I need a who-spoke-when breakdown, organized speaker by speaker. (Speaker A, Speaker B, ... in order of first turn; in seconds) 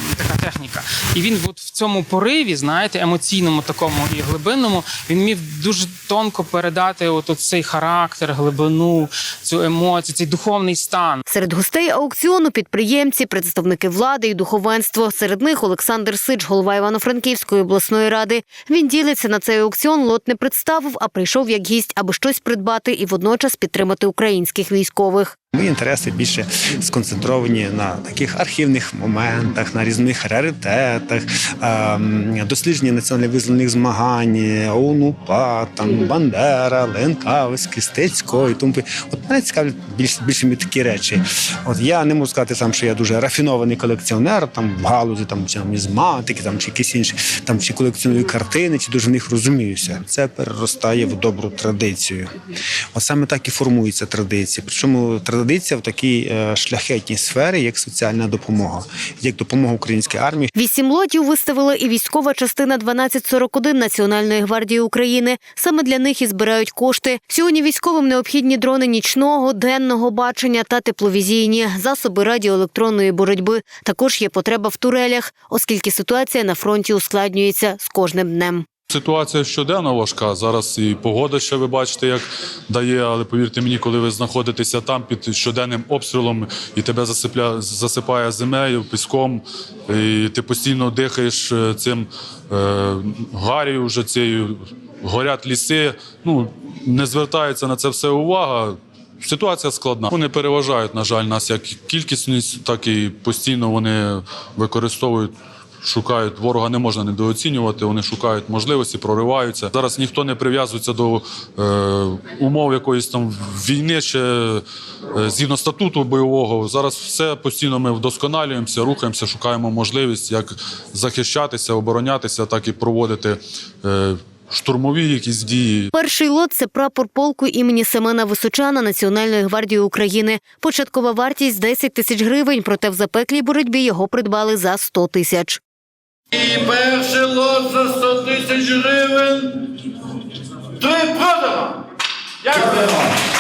Speaker A: 0.2-11.2
Speaker B: 11.3-25.4, 60.5-78.7, 125.9-135.6
Speaker C: 25.5-52.3, 52.9-60.5
Speaker D: 78.9-125.9
Speaker E: 136.5-139.4, 141.0-141.7